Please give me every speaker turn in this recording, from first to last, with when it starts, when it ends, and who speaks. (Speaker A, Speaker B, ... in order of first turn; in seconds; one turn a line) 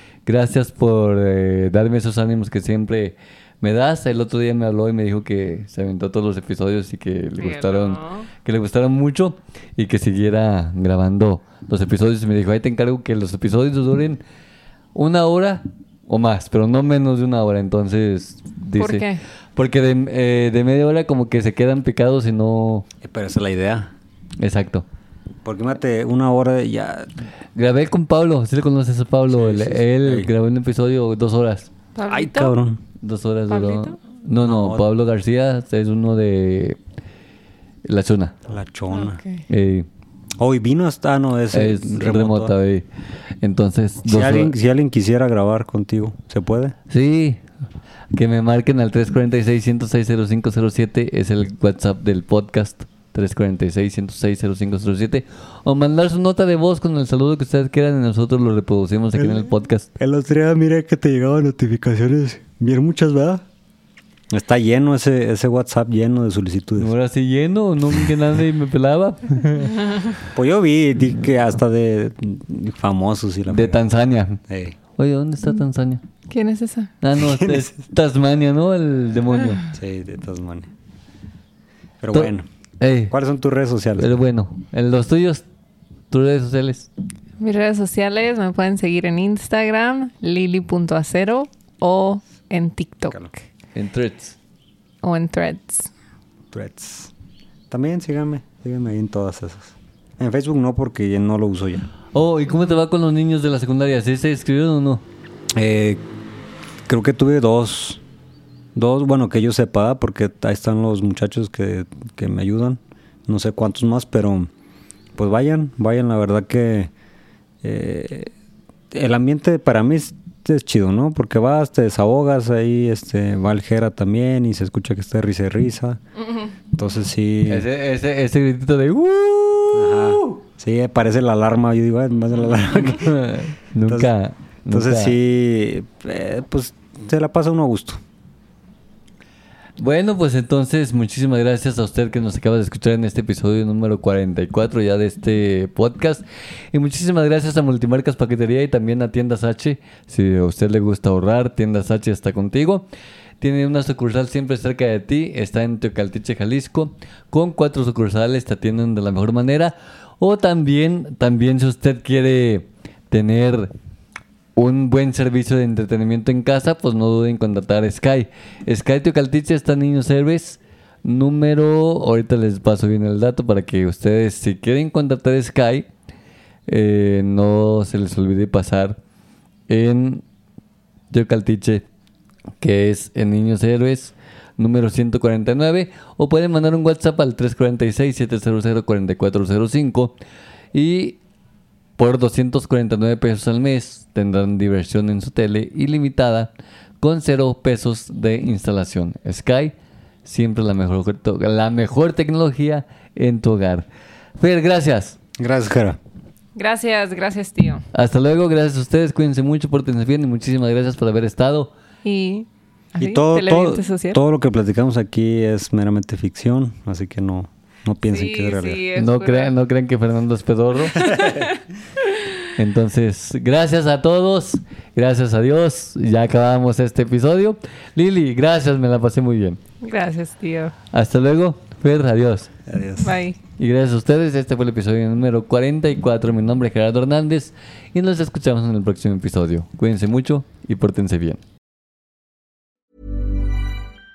Speaker A: 0.2-14.2
Speaker B: 7.4-8.3
Speaker A: 14.9-22.9
Speaker B: 18.8-19.2
Speaker C: 23.0-23.9
Speaker A: 24.4-24.8
Speaker C: 25.4-27.1
Speaker A: 27.6-31.7
Speaker C: 29.3-30.3
Speaker B: 31.9-32.5
Speaker C: 32.1-32.8
Speaker A: 33.0-36.8
Speaker B: 33.5-34.0
Speaker C: 34.4-34.9
Speaker A: 37.8-38.3
Speaker C: 38.5-39.2
Speaker B: 38.9-39.4
Speaker A: 39.5-39.9
Speaker C: 40.4-42.5
Speaker A: 41.5-42.8
Speaker A: 43.4-44.5
Speaker C: 44.0-46.8
Speaker A: 46.9-47.4
Speaker A: 48.1-59.9
Speaker C: 59.2-63.4
Speaker C: 64.3-66.9
Speaker A: 66.8-69.9
Speaker C: 70.2-73.8
Speaker A: 73.5-74.4
Speaker C: 74.5-74.8
Speaker A: 75.0-76.0
Speaker B: 76.3-76.9
Speaker A: 77.0-79.7
Speaker C: 77.2-77.7
Speaker C: 79.7-80.7
Speaker C: 82.0-82.5
Speaker A: 82.1-83.1
Speaker C: 83.1-84.2
Speaker A: 84.0-85.4
Speaker A: 86.1-86.9
Speaker B: 87.4-93.4
Speaker A: 93.7-94.3
Speaker B: 95.0-95.9
Speaker C: 96.5-97.1
Speaker C: 97.7-101.9
Speaker A: 102.1-105.0
Speaker C: 105.5-106.0
Speaker C: 106.9-108.0
Speaker C: 108.7-114.5
Speaker C: 115.2-116.9
Speaker C: 117.6-118.3
Speaker C: 118.9-126.0
Speaker C: 126.7-127.7
Speaker A: 127.5-130.4
Speaker C: 129.7-133.2
Speaker A: 132.7-135.2
Speaker C: 133.8-134.1
Speaker C: 134.7-138.0
Speaker A: 139.8-152.9
Speaker A: 153.4-163.7
Speaker A: 164.6-175.9
Speaker A: 176.7-179.0
Speaker A: 179.7-180.2
Speaker A: 181.1-181.8
Speaker A: 182.6-190.1
Speaker A: 190.7-191.2
Speaker A: 192.0-196.5
Speaker A: 197.0-199.7
Speaker A: 200.2-203.8
Speaker A: 204.4-205.2
Speaker C: 205.3-206.0
Speaker B: 206.6-207.8
Speaker A: 207.9-211.7
Speaker B: 212.0-214.2
Speaker C: 213.0-218.8
Speaker B: 218.1-219.5
Speaker A: 218.9-221.2
Speaker B: 221.0-221.5
Speaker A: 222.6-229.6
Speaker B: 229.8-230.7
Speaker A: 230.9-232.5
Speaker C: 232.7-233.2
Speaker B: 233.0-233.4
Speaker A: 233.6-241.4